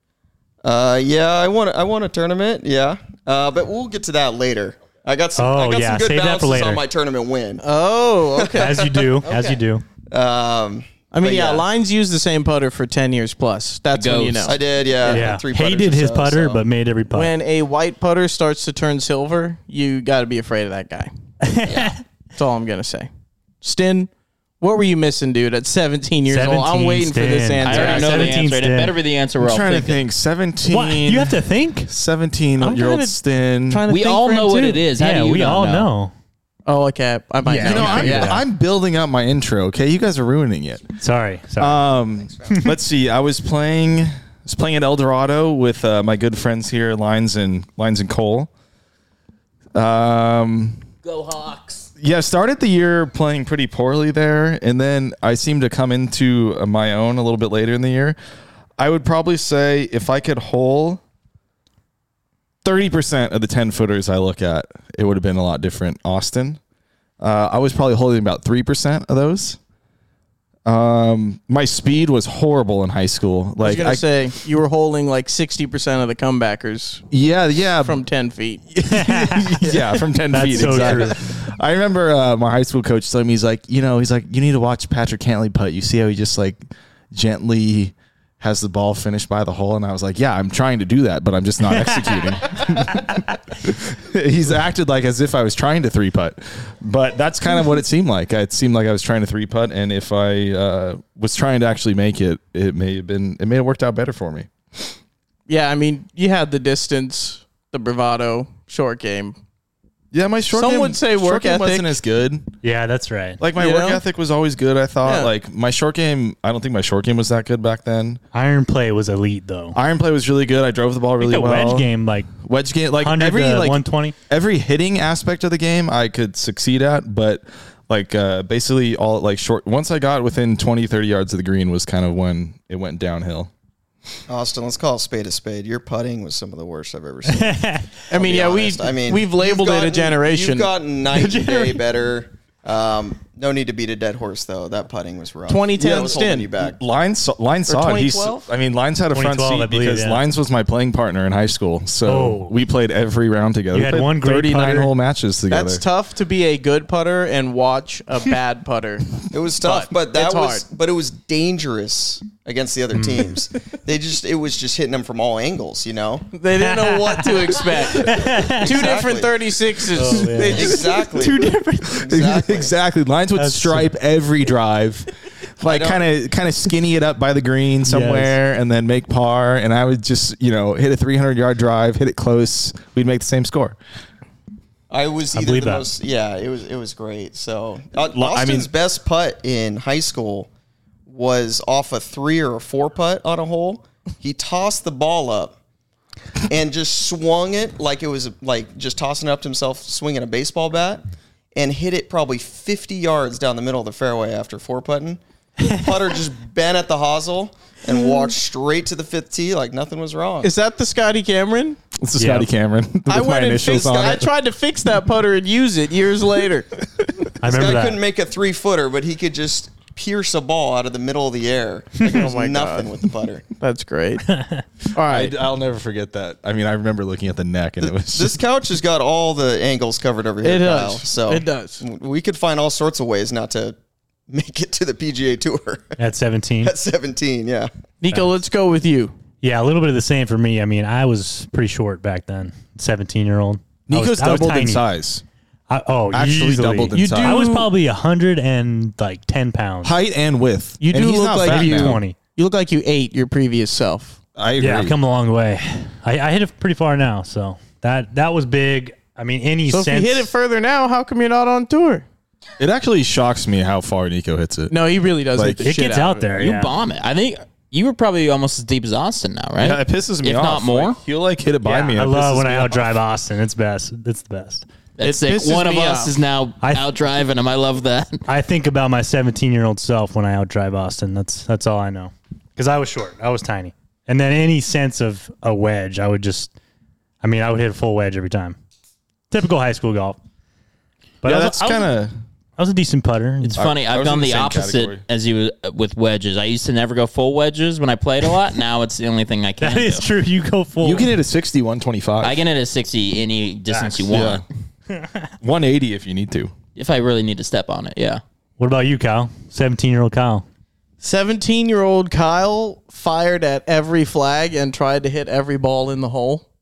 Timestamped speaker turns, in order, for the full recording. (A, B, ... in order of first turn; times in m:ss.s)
0:00.6-0:07.6 A
0:05.4-0:06.8 B
0:07.6-0:09.6 C
0:08.4-0:09.3 A
0:08.6-0:09.8 B
0:10.1-0:11.6 A
0:11.1-0:15.3 C
0:13.9-0:14.6 D
0:14.4-0:16.6 A
0:15.1-0:17.3 B
0:17.1-0:21.1 C
0:21.4-0:22.0 B
0:21.7-0:21.9 D
0:22.3-0:23.1 C
0:23.6-0:24.1 C
0:24.6-0:28.4 C
0:26.3-0:29.0 B
0:27.6-0:30.0 D
0:29.4-0:33.8 E
0:30.7-0:31.9 B
0:32.6-0:34.8 C
0:33.9-0:35.9 D
0:35.0-0:36.1 B
0:36.7-0:38.4 C
0:37.4-0:38.4 B
0:37.6-0:40.9 E
0:41.0-0:41.8 B
0:41.6-0:48.5 E
0:49.7-0:50.8 E
0:51.0-0:51.9 D
0:52.0-0:58.2 E
0:58.8-1:01.0 E
1:02.6-1:06.6 E
1:07.2-1:09.6 E
1:10.6-1:14.0 E
1:13.6-1:17.0 C
1:17.1-1:18.0 E
1:17.8-1:18.6 C
1:18.7-1:44.9 E
1:18.9-1:21.2 B
1:20.3-1:21.0 C
1:45.5-1:49.4 C
1:50.1-1:52.5 E
1:50.5-1:52.0 C
1:52.6-1:53.4 B
1:53.4-1:58.2 E
1:53.6-1:54.0 C
1:55.0-1:55.3 C
1:58.3-1:59.8 B
1:59.7-2:01.9 E
2:01.2-2:02.3 B
2:02.4-2:13.5 E
2:03.0-2:04.2 B
2:14.3-2:26.8 A
2:17.4-2:17.9 B
2:18.1-2:20.7 C
2:21.1-2:21.8 B
2:25.5-2:26.5 C
2:26.8-2:35.8 E
2:27.7-2:28.5 C
2:29.1-2:30.2 B
2:32.0-2:32.5 B
2:33.7-2:34.9 B
2:35.5-2:40.6 C
2:39.3-2:46.2 A
2:42.9-2:43.3 B
2:46.3-2:52.1 C
2:46.9-2:47.4 B
2:48.0-2:48.7 B
2:48.4-2:49.4 A
2:49.9-2:51.0 B
2:50.4-2:52.7 A
2:52.0-3:03.8 E
2:53.4-2:53.9 B
2:55.6-2:56.0 A
2:57.8-2:58.3 B
3:04.9-3:10.5 A
3:05.3-3:05.8 B
3:08.1-3:08.7 E
3:11.1-3:15.6 A
3:16.5-3:21.0 A
3:21.5-3:30.5 A
3:30.4-3:31.8 C
3:32.0-3:34.3 E
3:32.2-3:32.5 B
3:33.1-3:36.7 C
3:37.4-3:38.0 B
3:37.4-3:43.4 A
3:42.0-3:42.9 C
3:43.6-3:44.2 C
3:44.3-3:44.6 B
3:44.9-3:45.3 C
3:44.9-3:48.4 E
3:48.1-3:53.8 A
3:50.4-3:51.8 C
3:54.3-3:57.7 A
3:56.0-3:56.7 B
3:58.0-3:59.1 C
3:59.4-4:04.8 B
4:03.9-4:05.2 E
4:05.7-4:09.9 B
4:06.1-4:07.4 E
4:06.9-4:07.7 C
4:09.8-4:12.0 E
4:10.8-4:14.2 C
4:11.4-4:12.2 B
4:14.4-4:15.0 E
4:14.6-4:20.3 B
4:19.7-4:22.0 C
4:22.6-4:24.8 E
4:24.7-4:26.3 C
4:25.3-4:25.6 E
4:25.6-4:26.7 B
4:26.4-4:31.0 D
4:29.6-4:33.0 E
4:31.9-4:34.6 B
4:35.0-4:38.2 D
4:35.0-4:36.1 C
4:36.6-4:36.9 B
4:38.3-4:46.5 B
4:47.2-4:48.6 B
4:49.3-4:50.2 B
4:51.2-4:51.9 B
4:51.2-4:52.1 E
4:52.6-4:53.7 B
4:53.6-4:55.0 E
4:53.6-5:00.1 D
4:59.6-5:01.1 B
5:00.8-5:02.4 E
5:02.2-5:04.4 D
5:03.7-5:04.1 B
5:04.1-5:04.4 E
5:04.9-5:05.3 B
5:05.4-5:06.5 E
5:06.8-5:08.2 D
5:08.6-5:10.4 B
5:11.0-5:16.4 C